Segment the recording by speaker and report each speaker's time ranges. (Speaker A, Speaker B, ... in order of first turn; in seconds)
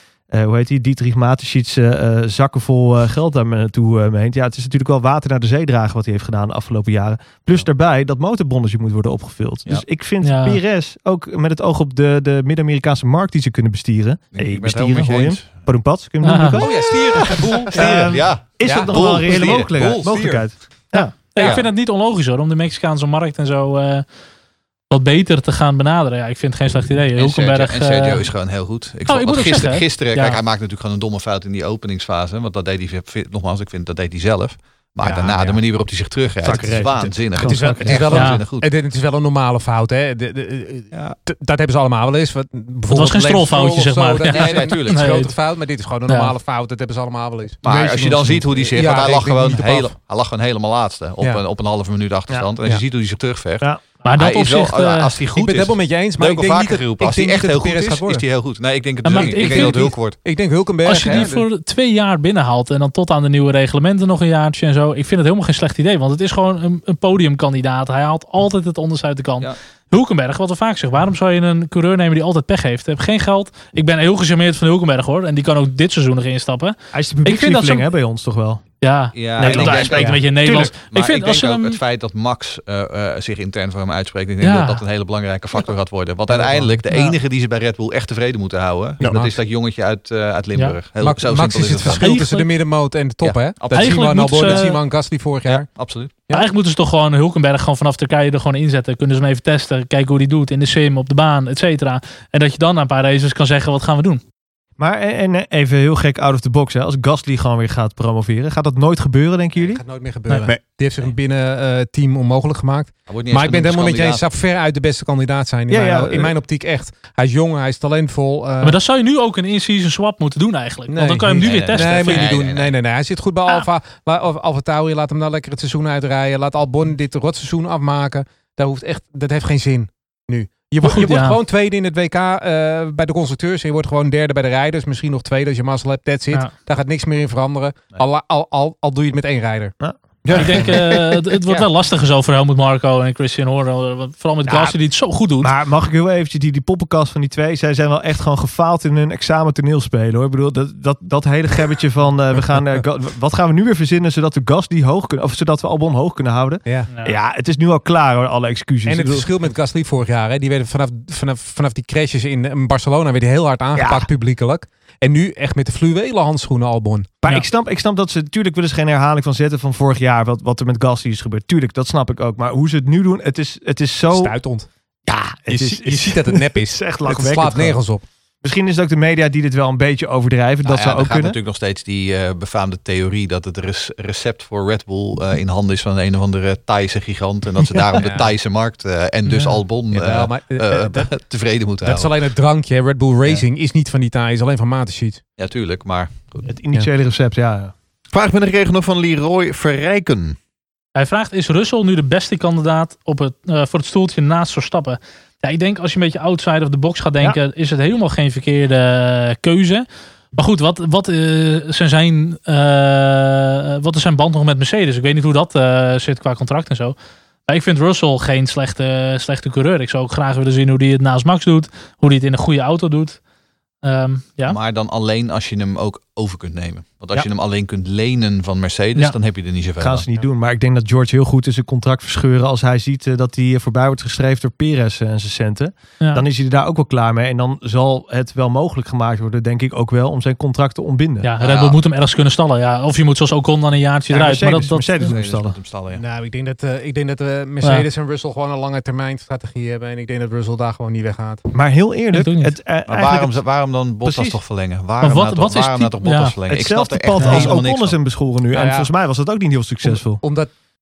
Speaker A: 0.3-21.5, 36.4-38.2, 76.9-78.6, 79.4-80.7, 86.3-86.6, 104.8-109.8, 115.7-116.3, 139.8-140.8, 144.5-144.7, 145.4-159.3, 163.7-164.1, 167.2-174.3, 175.1-177.8, 178.4-181.4, 187.6-187.9, 196.4-197.7, 229.8-241.3, 244.1-245.6, 251.5-253.4, 254.0-254.4, 256.5-260.2
Speaker B: 10.2-10.6, 16.2-16.6, 20.9-24.0, 24.9-28.2, 29.1-30.4, 38.1-38.4, 42.9-45.3, 46.1-46.3, 54.0-55.1, 59.0-59.9, 60.8-77.9, 78.8-81.8, 84.4-84.8, 86.9-87.2, 91.9-92.5, 93.7-94.8, 96.3-104.2, 118.6-122.3, 130.8-131.4, 140.3-145.5, 156.9-157.2, 189.2-189.6, 200.9-216.9, 217.5-223.2, 223.8-224.6, 241.2-245.1, 252.1-252.5, 255.0-256.3, 257.2-257.5
Speaker C: 14.3-15.7, 17.7-20.1, 21.3-21.7, 27.2-38.7, 44.2-45.2, 47.6-60.1, 79.1-92.1, 93.2-94.6, 95.5-96.2, 113.1-114.2, 121.4-122.7, 180.6-192.1, 195.4-196.4, 224.5-230.0, 241.4-241.8, 245.0-246.0, 252.9-258.0
Speaker D: 16.6-18.1, 18.6-20.4, 35.0-35.6, 37.4-49.9, 55.4-58.2, 59.0-61.4, 89.0-89.4, 91.0-95.7, 109.5-118.8, 120.9-139.7, 158.8-167.1, 174.1-174.7, 175.5-178.0, 188.0-188.3, 189.9-191.1, 191.8-195.2, 245.9-251.4, 257.2-257.6, 258.5-258.9, 259.8-260.5
Speaker E: 140.2-141.2, 198.1-200.4